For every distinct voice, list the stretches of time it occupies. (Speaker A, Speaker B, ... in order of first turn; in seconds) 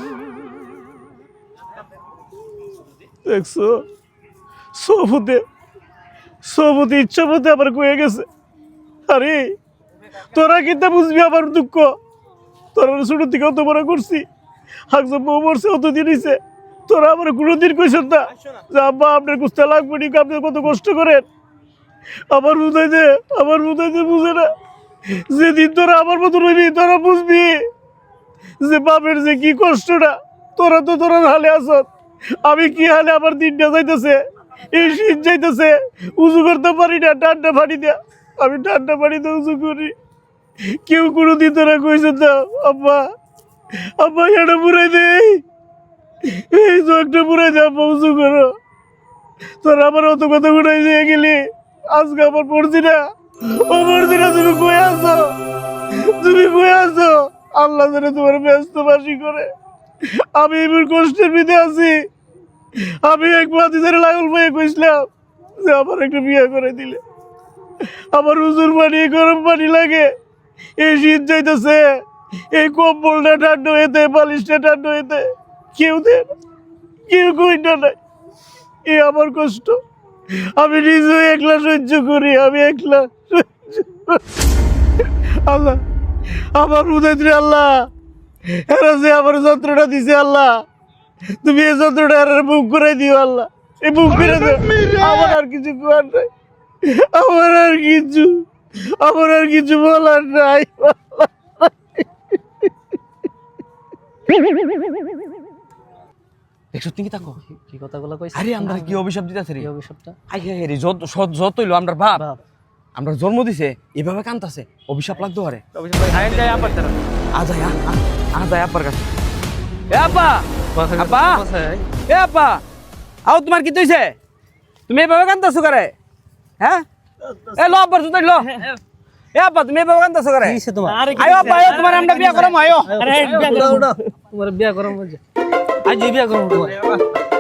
Speaker A: 3.2-3.8, 4.8-5.4, 6.4-8.2, 9.1-9.4, 10.3-11.9, 12.8-14.2, 14.9-21.2, 22.3-24.5, 25.3-27.6, 28.6-31.9, 32.4-34.2, 34.7-39.9, 40.9-43.0, 44.0-45.4, 46.3-48.5, 49.6-51.4, 51.9-55.3, 56.0-59.5, 60.4-62.0, 63.0-65.0, 65.6-67.0, 68.1-70.1, 70.8-71.8, 72.5-76.3, 77.1-78.0, 78.9-79.8, 80.6-84.2, 85.5-85.8, 86.5-87.7, 88.7-90.5, 91.4-96.3, 96.9-98.4, 99.0-102.0
Speaker B: 106.7-107.4, 108.3-109.7, 110.3-112.2, 113.0-116.8, 117.3-119.0, 119.9-120.5, 121.0-121.4, 122.1-122.6, 123.3-124.2, 124.9-125.9, 127.6-128.5, 129.3-130.6, 131.2-133.9
Speaker C: 107.5-109.0, 109.6-110.2, 112.2-112.4, 116.1-116.8, 120.8-121.9, 130.4-135.2, 135.8-136.8